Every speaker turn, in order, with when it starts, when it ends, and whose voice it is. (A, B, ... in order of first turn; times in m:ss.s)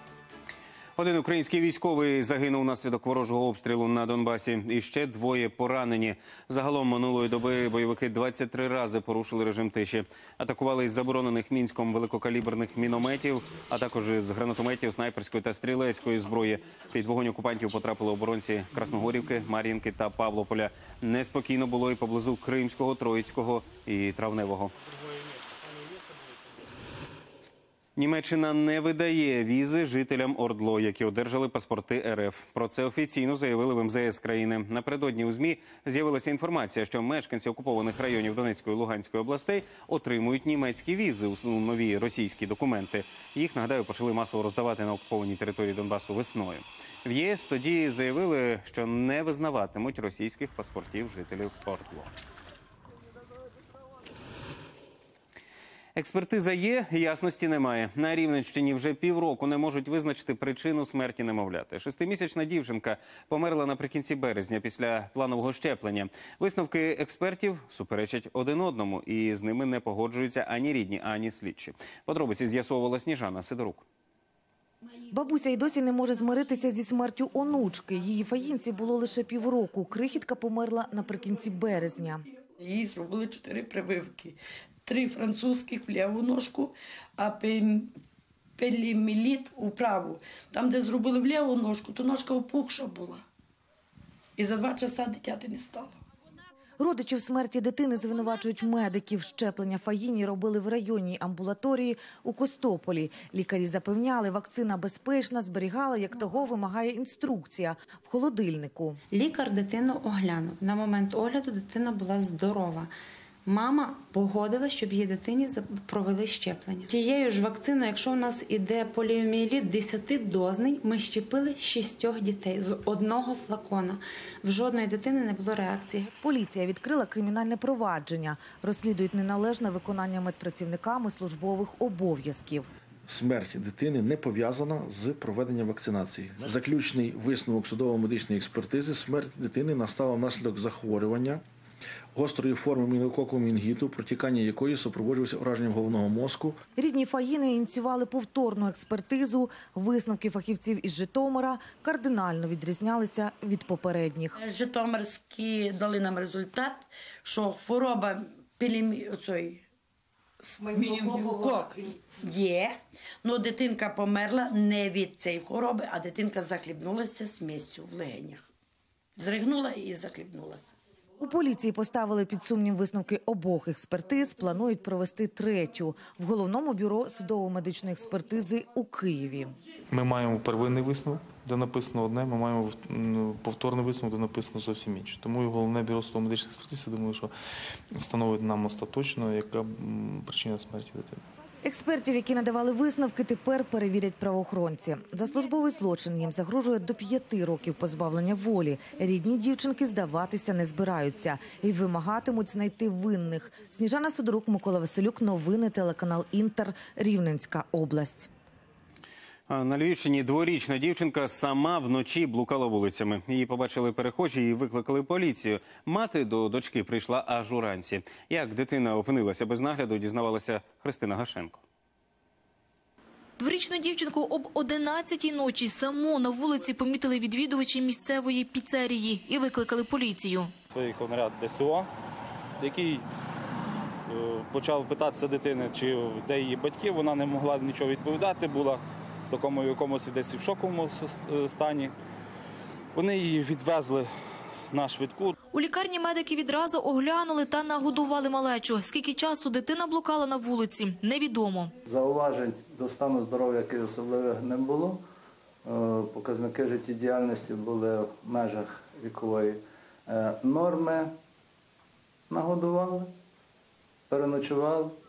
0:01.0-0:24.7 A
0:28.0-0:52.1 A
0:56.0-1:13.8 A
1:15.1-1:22.2 B
1:22.6-1:27.9 C
1:28.6-1:33.2 C
1:34.4-1:36.0 C
1:36.8-1:49.0 B
1:49.1-1:52.9 D
1:53.4-2:06.1 D
2:06.1-2:12.7 B
2:13.1-2:21.4 E
2:22.1-2:26.6 E
2:26.8-2:34.4 B
2:34.3-2:39.6 C
2:40.4-2:48.4 C
2:49.2-2:50.7 C
2:51.2-2:59.5 B
3:00.1-3:07.3 F
3:08.8-3:10.9 F
3:11.6-3:28.3 B
3:29.5-3:41.6 A
3:43.4-3:50.5 G
3:50.7-3:51.9 H
3:52.6-3:53.0 H
3:54.1-4:01.9 H
4:02.9-4:04.1 H
4:04.7-4:05.3 H
4:05.5-4:11.7 G
4:11.8-4:15.0 I
4:15.6-4:21.1 I
4:22.3-4:23.1 I
4:24.1-4:25.0 I